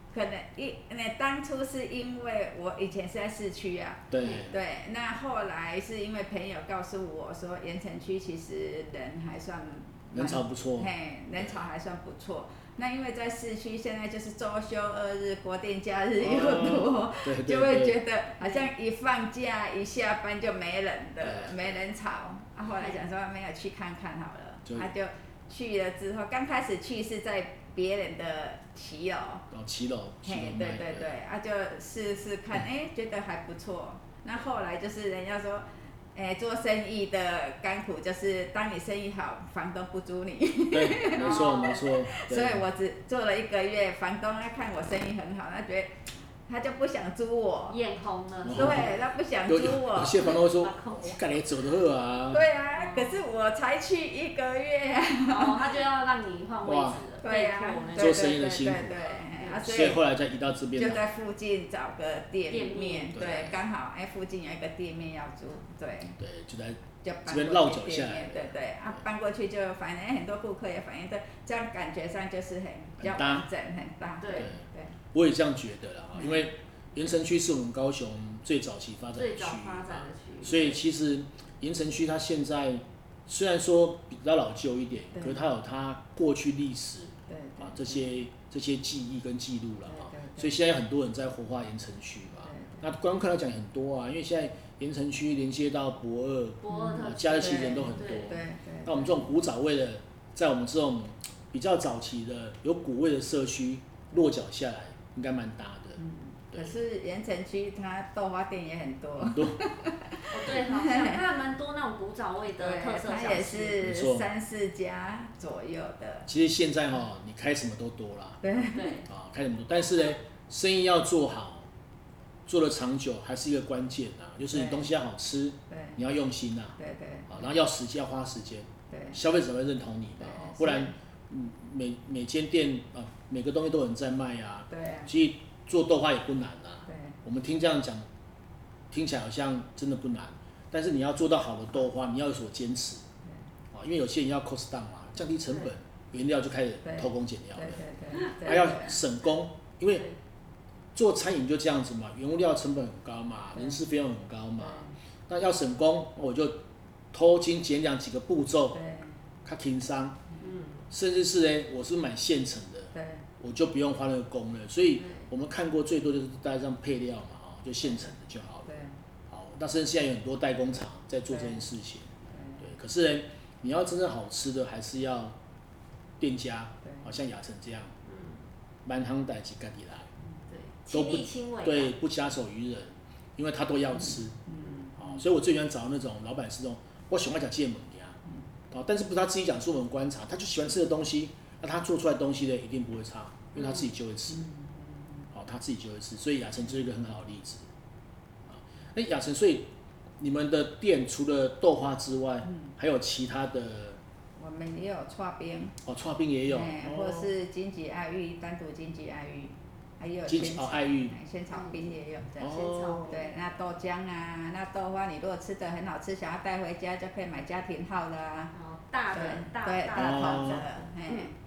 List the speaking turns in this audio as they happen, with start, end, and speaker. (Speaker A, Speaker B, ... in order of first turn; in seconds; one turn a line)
Speaker A: 0.1-29.5
Speaker B: 4.1-4.5
Speaker B: 10.1-11.6
Speaker B: 16.2-18.0
Speaker B: 21.2-21.8
Speaker B: 29.5-31.1
Speaker A: 30.2-47.8
Speaker B: 40.7-42.6
Speaker C: 41.1-41.8
Speaker C: 47.7-48.9
Speaker B: 48.5-48.9
Speaker A: 48.5-50.3
Speaker B: 49.5-52.5
Speaker C: 50.2-51.2
Speaker A: 52.3-55.7
Speaker C: 52.8-53.2
Speaker C: 55.3-58.3
Speaker B: 56.6-57.0
Speaker A: 57.2-60.0
Speaker B: 58.0-61.0
Speaker C: 59.3-59.6
Speaker A: 60.8-66.2
Speaker C: 62.5-63.2
Speaker B: 63.1-63.6
Speaker B: 66.2-68.5
Speaker A: 67.0-75.0
Speaker B: 73.0-73.5
Speaker C: 74.2-74.5
Speaker B: 74.4-106.0
Speaker A: 76.2-76.4
Speaker C: 79.2-80.8
Speaker A: 87.3-88.0
Speaker A: 89.9-90.5
Speaker A: 92.5-92.8
Speaker C: 96.6-98.4
Speaker A: 96.7-99.3
Speaker A: 106.0-111.2
Speaker B: 106.5-106.8
Speaker B: 109.2-109.6
Speaker C: 110.3-113.8
Speaker A: 112.6-116.3
Speaker B: 113.8-114.3
Speaker B: 116.3-118.4
Speaker A: 118.4-119.0
Speaker C: 118.7-119.1
Speaker B: 119.1-121.7
Speaker B: 122.5-126.8
Speaker A: 124.5-124.8
Speaker A: 125.7-126.0
Speaker A: 126.8-127.4
Speaker B: 127.3-138.1
Speaker A: 128.9-129.2
Speaker A: 130.2-130.9
Speaker A: 134.7-135.1
Speaker A: 136.9-137.2
Speaker B: 138.9-143.0
Speaker B: 143.7-150.1
Speaker A: 146.8-148.9
Speaker B: 150.9-158.8
Speaker A: 154.7-154.9
Speaker A: 158.8-159.1
Speaker B: 159.4-160.2
Speaker C: 160.4-160.8
Speaker B: 160.9-168.7
Speaker A: 162.9-163.2
Speaker A: 168.7-169.0
Speaker B: 169.3-172.1
Speaker A: 171.3-171.6
Speaker A: 172.3-172.6
Speaker B: 172.6-175.4
Speaker B: 176.2-177.9
Speaker C: 178.1-178.4
Speaker B: 178.9-180.1
Speaker C: 180.5-181.9
Speaker B: 180.9-184.4
Speaker A: 184.5-185.2
Speaker B: 185.0-188.2
Speaker B: 188.7-194.5
Speaker C: 193.6-193.8
Speaker A: 194.4-194.9
Speaker B: 195.3-197.7
Speaker B: 198.5-204.0
Speaker A: 204.4-205.8
Speaker B: 205.8-207.3
Speaker A: 206.5-218.5
Speaker B: 210.3-211.2
Speaker C: 211.5-213.3
Speaker B: 212.4-213.1
Speaker C: 218.5-221.3
Speaker A: 219.1-221.4
Speaker B: 219.9-220.7